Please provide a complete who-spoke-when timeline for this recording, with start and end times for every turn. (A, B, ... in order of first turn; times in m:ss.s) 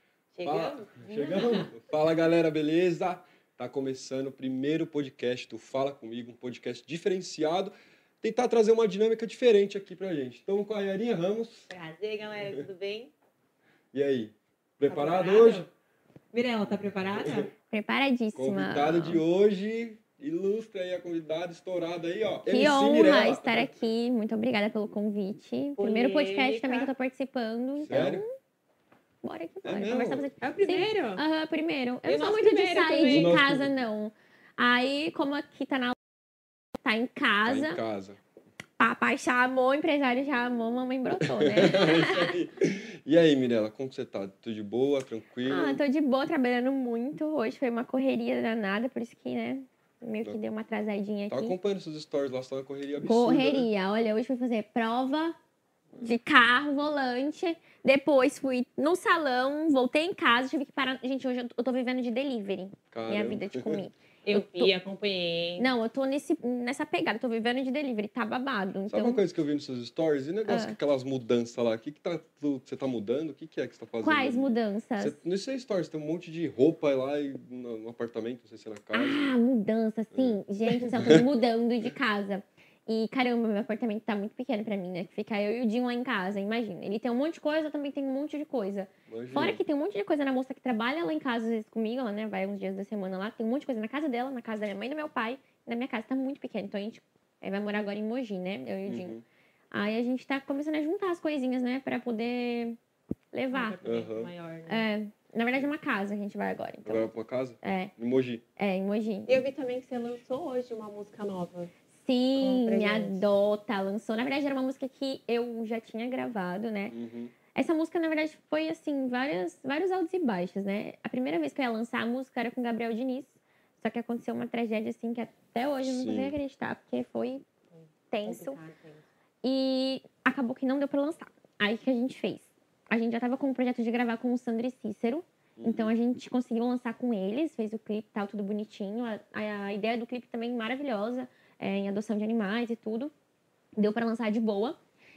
0:00.3-0:01.8 A
0:00.4-0:11.7 B
0:11.7-0:13.1 A
0:13.9-0:15.7 B
0:14.9-0:15.7 A
0:16.3-0:17.5 A
0:17.1-0:17.5 B
0:17.7-0:19.2 C
0:18.3-0:23.7 B
0:22.5-0:28.3 C
0:25.8-0:26.9 A
0:27.8-0:28.2 B
0:29.2-0:36.0 C
0:29.6-0:30.3 B
0:30.4-0:31.2 A
0:32.0-0:33.3 A
0:33.0-0:33.8 B
0:36.8-0:37.8 C
0:37.4-0:38.2 B
0:38.8-0:42.3 C
0:41.2-0:45.8 B
0:45.5-0:51.6 C
0:51.3-0:53.7 B
0:53.0-0:55.4 C
0:56.0-1:04.7 C
1:02.9-1:03.8 B
1:04.2-1:05.7 A
1:05.6-1:09.2 C
1:08.9-1:19.3 B
1:10.5-1:10.8 C
1:14.0-1:15.2 C
1:18.9-1:39.2 C
1:20.1-1:21.3 B
1:29.1-1:29.6 B
1:38.8-1:39.2 B
1:39.7-1:42.8 C
1:43.3-1:43.8 C
1:43.5-1:44.8 A
1:43.8-1:44.3 B
1:44.7-1:47.9 C
1:46.8-1:48.4 B
1:48.6-1:49.4 C
1:49.3-1:51.7 A
1:52.0-1:57.0 C
1:52.4-1:53.2 A
1:56.9-1:57.3 B
1:57.5-2:07.4 C
2:05.8-2:06.3 B
2:07.7-2:09.0 A
2:08.1-2:08.6 C
2:09.4-2:23.1 C
2:15.6-2:15.9 B
2:23.8-2:24.8 C